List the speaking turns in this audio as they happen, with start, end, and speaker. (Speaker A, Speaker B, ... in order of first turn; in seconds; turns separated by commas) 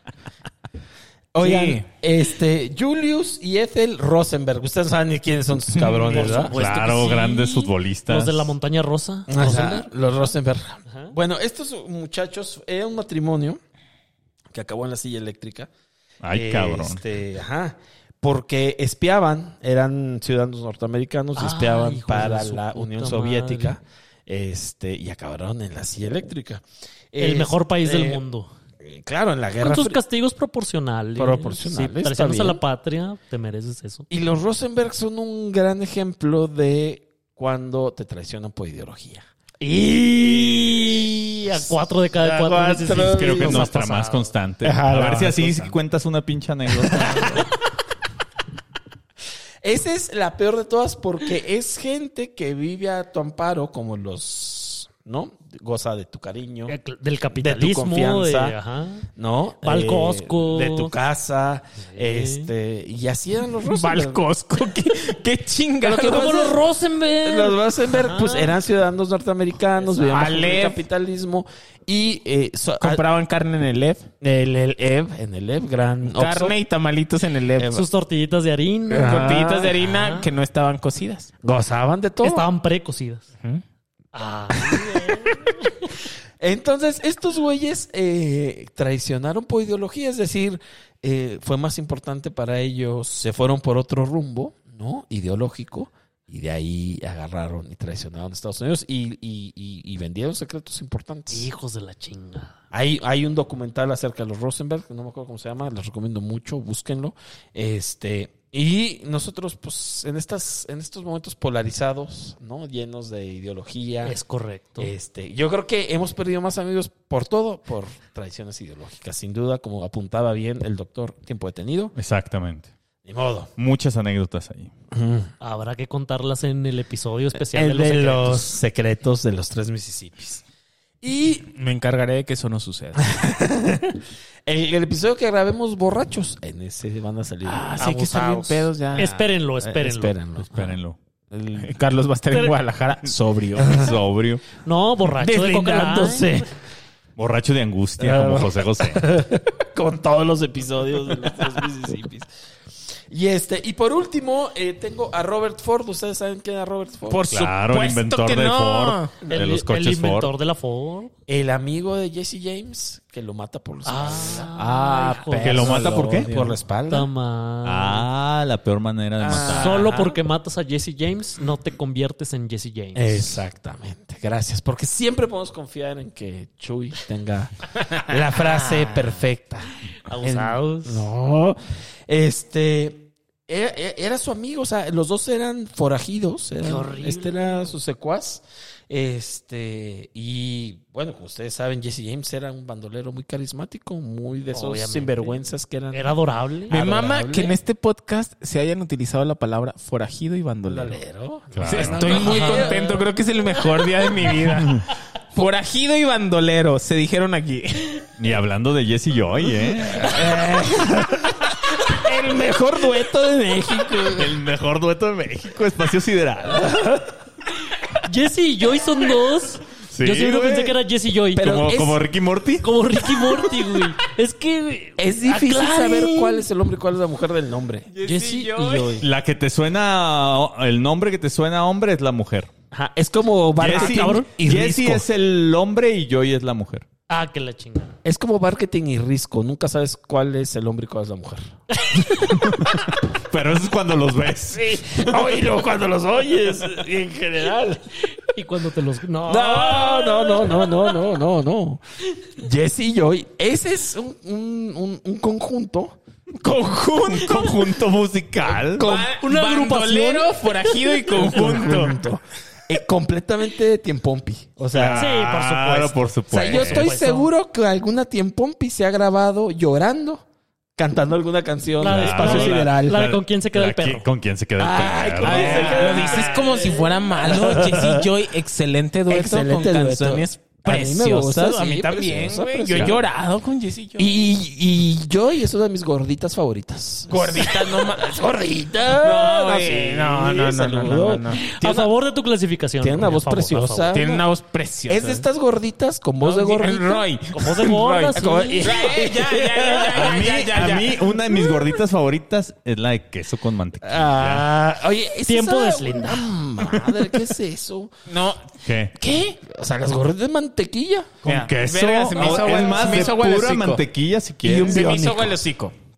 Speaker A: 1.3-6.5, Speaker B: 1.4-1.9, Speaker B: 5.7-7.2, Speaker C: 6.1-9.9, Speaker D: 6.5-8.5, Speaker A: 9.3-13.6, Speaker A: 14.5-15.7, Speaker D: 16.2-17.0, Speaker A: 16.3-28.2, Speaker C: 21.4-23.8, Speaker C: 27.2-28.5, Speaker A: 28.8-30.0, Speaker C: 29.6-34.1, Speaker A: 31.2-32.6, Speaker A: 34.1-39.3, Speaker C: 39.6-44.3, Speaker A: 40.2-41.0, Speaker A: 42.2-43.7, Speaker D: 42.9-47.4, Speaker A: 44.6-45.7, Speaker A: 46.7-47.5, Speaker A: 49.6-56.8, Speaker C: 56.7-59.0, Speaker A: 57.4-58.6, Speaker A: 59.2-64.2, Speaker C: 59.6-60.9, Speaker C: 62.0-62.5, Speaker B: 63.7-66.5, Speaker C: 65.9-68.5, Speaker A: 65.9-66.6, Speaker A: 67.2-73.0, Speaker C: 69.9-70.4, Speaker B: 70.1-70.8, Speaker B: 72.8-74.1, Speaker A: 74.2-76.6, Speaker B: 76.0-77.8, Speaker A: 77.6-77.8, Speaker C: 77.7-80.3, Speaker A: 78.9-79.8, Speaker B: 78.9-81.3, Speaker A: 81.4-82.5, Speaker C: 82.2-83.2, Speaker C: 84.1-85.9, Speaker A: 84.5-85.3, Speaker A: 86.4-101.5, Speaker C: 101.3-102.5, Speaker A: 102.7-114.2, Speaker C: 114.0-114.9, Speaker A: 114.8-121.9, Speaker D: 122.0-122.7, Speaker A: 123.0-123.5, Speaker D: 123.6-124.7, Speaker A: 124.9-125.3, Speaker C: 125.4-128.5, Speaker A: 127.3-130.4, Speaker A: 131.0-131.5, Speaker B: 131.6-133.1, Speaker A: 133.0-137.9, Speaker B: 137.4-139.2, Speaker C: 137.8-140.2, Speaker A: 138.9-140.8, Speaker D: 140.5-141.0, Speaker A: 141.3-141.7, Speaker B: 141.6-143.8, Speaker A: 143.6-143.9, Speaker D: 143.6-144.4, Speaker C: 144.7-146.4, Speaker A: 145.1-146.5, Speaker D: 147.2-149.1, Speaker A: 148.0-152.3, Speaker A: 153.1-157.2, Speaker B: 157.1-159.1, Speaker D: 157.3-160.3, Speaker C: 159.3-161.1, Speaker A: 161.3-164.5, Speaker C: 163.8-165.8, Speaker B: 164.5-166.6, Speaker D: 165.4-166.3, Speaker A: 165.6-167.1, Speaker C: 166.9-168.1, Speaker D: 167.6-169.9, Speaker A: 169.2-170.2, Speaker C: 169.4-173.3, Speaker A: 172.9-196.1, Speaker C: 180.1-181.1, Speaker C: 186.6-187.7, Speaker C: 194.5-195.4, Speaker C: 195.9-196.8, Speaker A: 196.7-197.6, Speaker B: 196.7-201.0, Speaker A: 200.7-203.0, Speaker D: 201.5-202.2, Speaker B: 201.6-208.0, Speaker C: 202.1-202.9, Speaker D: 204.6-204.8, Speaker D: 208.2-210.3, Speaker A: 209.9-214.3, Speaker D: 214.2-216.8, Speaker A: 216.5-217.1, Speaker C: 218.0-221.5, Speaker D: 219.9-220.8, Speaker A: 221.3-222.0, Speaker D: 221.4-222.7, Speaker C: 222.6-226.4, Speaker A: 225.0-227.9, Speaker B: 227.9-229.0, Speaker C: 228.1-229.1, Speaker D: 229.0-232.5, Speaker A: 232.7-235.1, Speaker D: 233.6-236.9, Speaker C: 233.7-234.3, Speaker C: 237.1-237.9, Speaker A: 238.0-241.5, Speaker D: 242.1-245.2, Speaker A: 244.6-247.8, Speaker C: 248.3-250.9, Speaker A: 249.2-251.8, Speaker A: 252.4-256.0, Speaker B: 256.4-257.8, Speaker D: 257.2-258.9, Speaker A: 258.5-259.1, Speaker B: 258.8-262.0, Speaker C: 259.2-261.8, Speaker A: 261.2-265.2, Speaker D: 264.7-266.9, Speaker C: 264.9-267.3, Speaker A: 266.3-270.2, Speaker A: 270.8-273.1, Speaker C: 271.8-274.1, Speaker D: 271.8-276.0, Speaker A: 274.6-278.1, Speaker B: 275.2-284.1, Speaker C: 276.1-276.4, Speaker A: 279.1-283.1, Speaker D: 282.7-283.0, Speaker A: 284.0-291.9, Speaker B: 287.1-288.2, Speaker B: 289.0-291.4, Speaker C: 291.5-294.0, Speaker A: 292.8-294.3, Speaker B: 293.9-295.3, Speaker A: 294.9-297.1, Speaker B: 296.2-301.0, Speaker C: 297.3-298.9, Speaker A: 298.1-300.1, Speaker D: 299.9-304.5, Speaker A: 303.8-307.9, Speaker C: 305.3-306.3, Speaker B: 308.1-309.4, Speaker D: 308.6-309.0, Speaker A: 309.4-311.2, Speaker B: 311.2-313.8, Speaker D: 311.2-314.8, Speaker A: 312.2-313.1, Speaker A: 314.4-315.4, Speaker B: 314.6-315.7